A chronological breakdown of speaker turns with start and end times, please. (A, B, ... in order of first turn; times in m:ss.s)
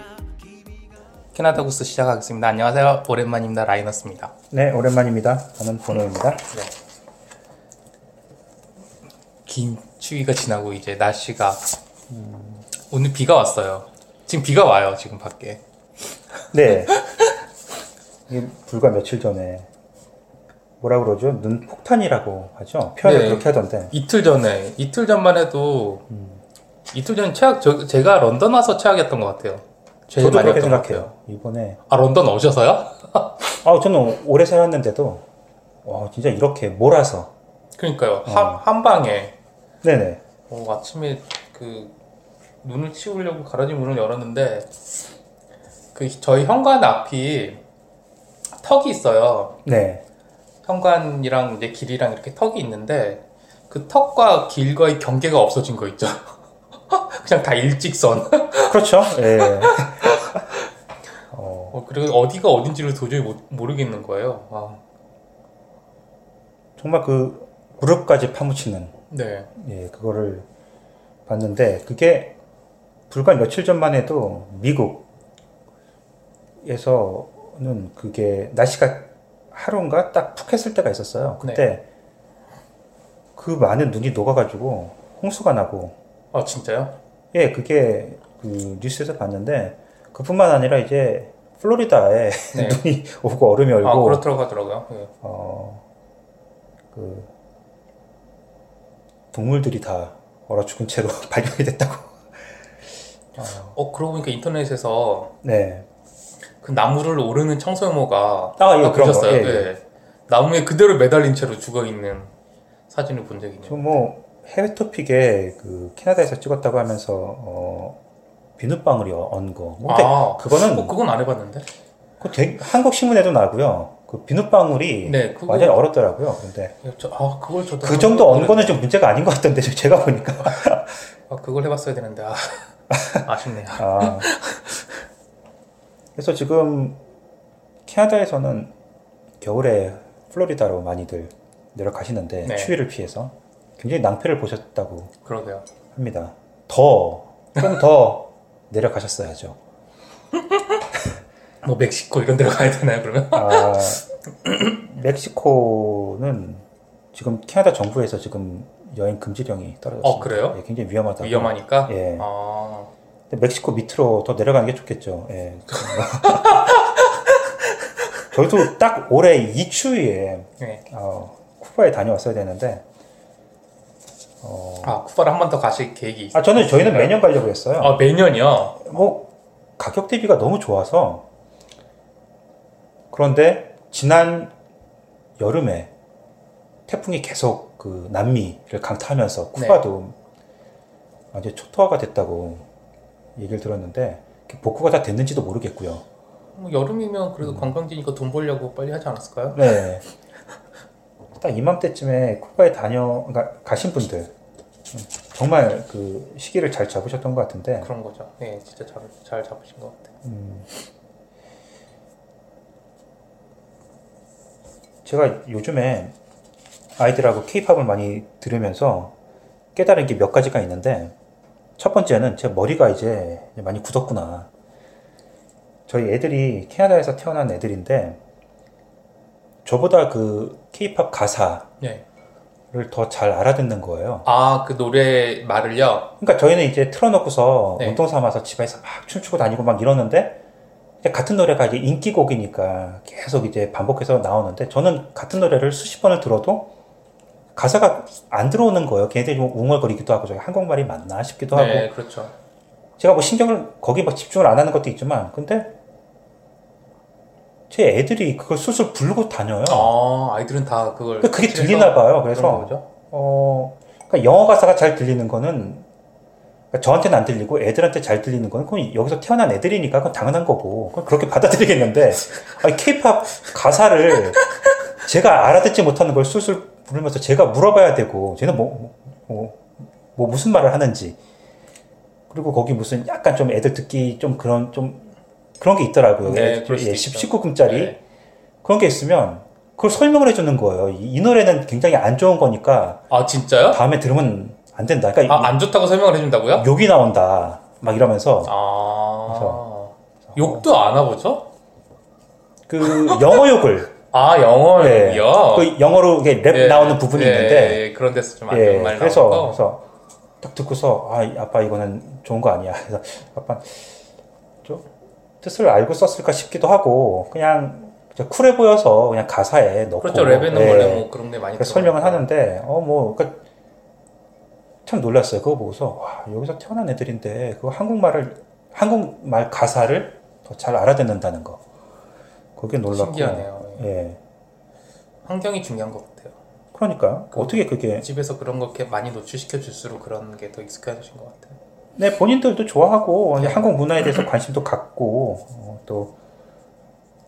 0:01.3-0:04.3 A
0:04.5-0:06.4 B
0:09.4-0:11.6 A
0:12.1-0:12.7 B
0:12.8-0:15.6 A
0:16.5-0:17.0 B
0:18.3-0:19.7 B
0:20.8-0:23.9 B
0:23.0-0:26.0 A
0:26.1-0:26.4 B
0:26.9-0:31.1 A
0:30.2-0:31.8 B
0:31.9-0:33.4 A
0:33.6-0:35.3 B
0:35.8-0:37.3 B
0:37.8-0:39.3 A
0:38.3-0:38.6 B
0:39.8-0:40.2 B
0:40.5-0:41.9 A
0:42.6-0:44.7 A
0:45.9-0:47.6 A
0:48.6-0:49.6 A
0:49.6-0:50.0 B
0:50.6-0:56.4 A
0:56.9-1:00.6 A
0:58.7-1:00.4 B
1:01.3-1:01.8 B
1:01.7-1:04.8 A
1:06.8-1:08.9 B
1:09.1-1:09.5 A
1:09.6-1:10.5 B
1:11.2-1:12.4 B
1:13.1-1:15.1 B
1:16.6-1:21.8 B
1:21.4-1:21.7 A
1:23.4-1:26.0 B
1:26.3-1:26.9 A
1:27.3-1:34.2 B
1:32.5-1:32.8 A
1:33.8-1:35.1 A
1:35.2-1:35.8 B
1:36.9-1:37.3 B
1:39.3-1:42.3 B
1:43.4-1:43.8 B
1:43.4-1:45.3 A
1:45.4-1:45.9 B
1:46.6-1:52.3 A
1:48.6-1:49.7 B
1:52.9-1:53.8 A
1:53.7-1:58.0 B
1:58.6-2:00.9 B
1:59.9-2:01.7 A
2:02.2-2:06.8 B
2:05.0-2:05.8 A
2:06.8-2:08.8 A
2:07.8-2:10.9 B
2:11.3-2:12.7 A
2:13.2-2:14.8 A
2:13.8-2:14.3 B
2:16.2-2:17.0 B
2:17.8-2:18.7 B
2:19.4-2:25.1 B
2:22.4-2:22.8 A
2:25.2-2:25.6 A
2:25.9-2:29.6 B
2:31.6-2:34.8 A
2:33.3-2:34.0 B
2:34.8-2:42.2 B
2:40.0-2:40.6 A
2:41.2-2:42.9 A
2:43.3-2:46.8 B
2:45.7-2:47.8 A
2:48.3-2:52.8 B
2:54.4-2:55.0 B
2:54.8-2:57.2 A
2:56.3-2:58.0 B
2:57.8-2:58.8 A
2:58.8-3:01.3 B
3:03.1-3:04.5 B
3:05.4-3:05.9 B
3:06.9-3:10.2 B
3:09.6-3:09.8 A
3:11.3-3:12.7 B
3:13.4-3:16.0 B
3:16.6-3:19.8 A
3:17.4-3:17.7 B
3:19.5-3:20.0 B
3:21.4-3:24.3 B
3:24.9-3:27.9 B
3:27.8-3:30.1 A
3:30.2-3:30.7 B
3:35.0-3:36.2 B
3:37.0-3:39.1 B
3:39.8-3:41.2 B
3:41.8-3:44.5 B
3:45.9-3:48.2 B
3:49.6-3:51.7 B
3:52.7-3:54.3 B
3:54.2-3:56.1 A
3:56.2-4:00.4 B
4:01.0-4:06.7 B
4:07.6-4:11.9 B
4:11.5-4:12.3 A
4:13.0-4:15.8 B
4:17.7-4:19.9 B
4:19.6-4:22.8 A
4:21.2-4:25.9 B
4:26.7-4:34.4 B
4:35.0-4:41.2 B
4:42.3-4:48.0 B
4:46.2-4:48.0 A
4:48.6-4:53.0 B
4:53.1-4:53.8 A
4:53.7-4:55.6 B
4:55.3-4:56.7 A
4:56.6-4:58.5 B
4:58.4-5:01.5 A
4:59.3-4:59.6 B
5:00.2-5:00.7 B
5:02.7-5:03.9 B
5:02.8-5:03.4 A
5:04.1-5:05.7 A
5:04.8-5:07.8 B
5:06.5-5:09.6 A
5:08.5-5:09.9 B
5:10.4-5:14.0 B
5:14.6-5:14.9 B
5:15.4-5:21.1 B
5:20.0-5:22.3 A
5:21.6-5:23.4 B
5:24.9-5:31.6 B
5:32.6-5:34.2 B
5:32.9-5:33.9 A
5:35.2-5:36.4 A
5:36.7-5:38.1 B
5:37.3-5:41.6 A
5:42.0-5:46.1 B
5:43.4-5:43.7 A